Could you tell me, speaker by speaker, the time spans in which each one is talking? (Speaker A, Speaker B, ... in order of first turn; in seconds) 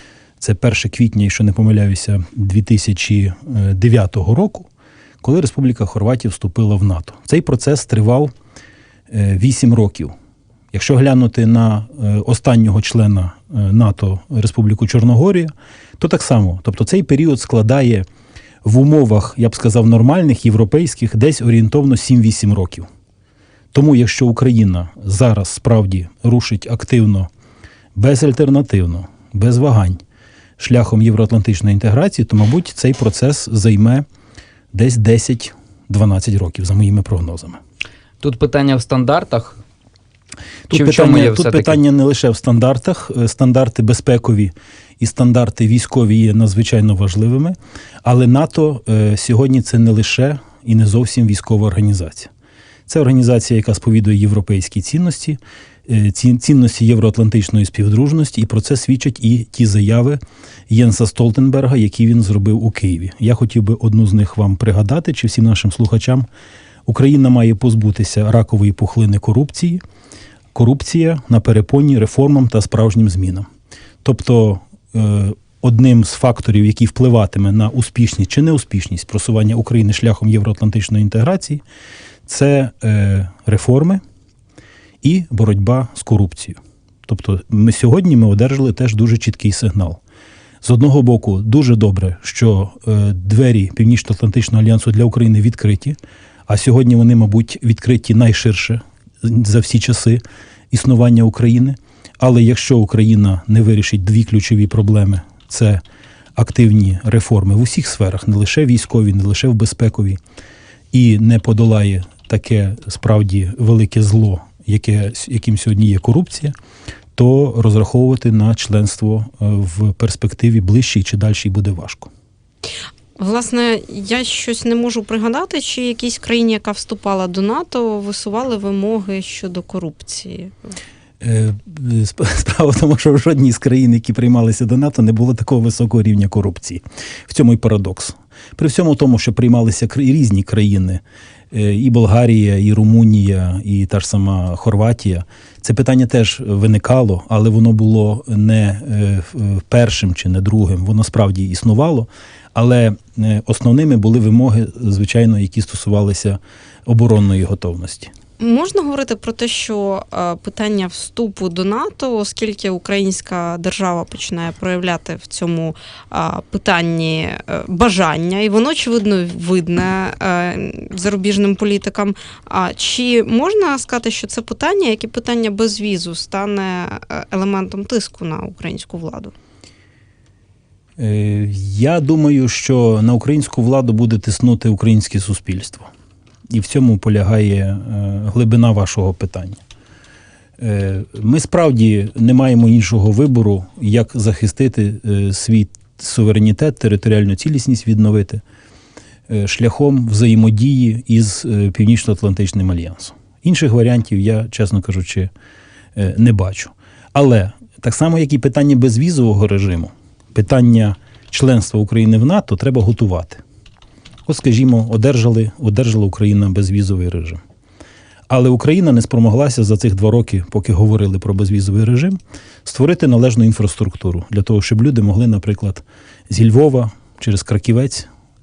Speaker A: 0.4-4.7, 5.2-8.3, 9.1-10.1, 10.7-18.1, 18.6-22.9, 23.7-27.3, 27.9-30.0, 30.6-34.0, 34.7-37.6, 40.7-52.3, 52.9-66.3, 66.9-69.8, 70.5-73.5, 74.0-81.6, 82.2-84.0, 85.0-90.0, 90.6-105.8, 106.4-110.2, 110.9-116.5, 117.2-122.1, 131.2-158.1, 181.0-185.9, 186.5-189.6, 190.6-198.4, 199.3-205.3, 205.9-213.4, 214.2-217.4, 218.3-228.1
Speaker B: 38.2-39.6, 40.7-41.8
Speaker C: 123.2-130.7, 158.4-179.3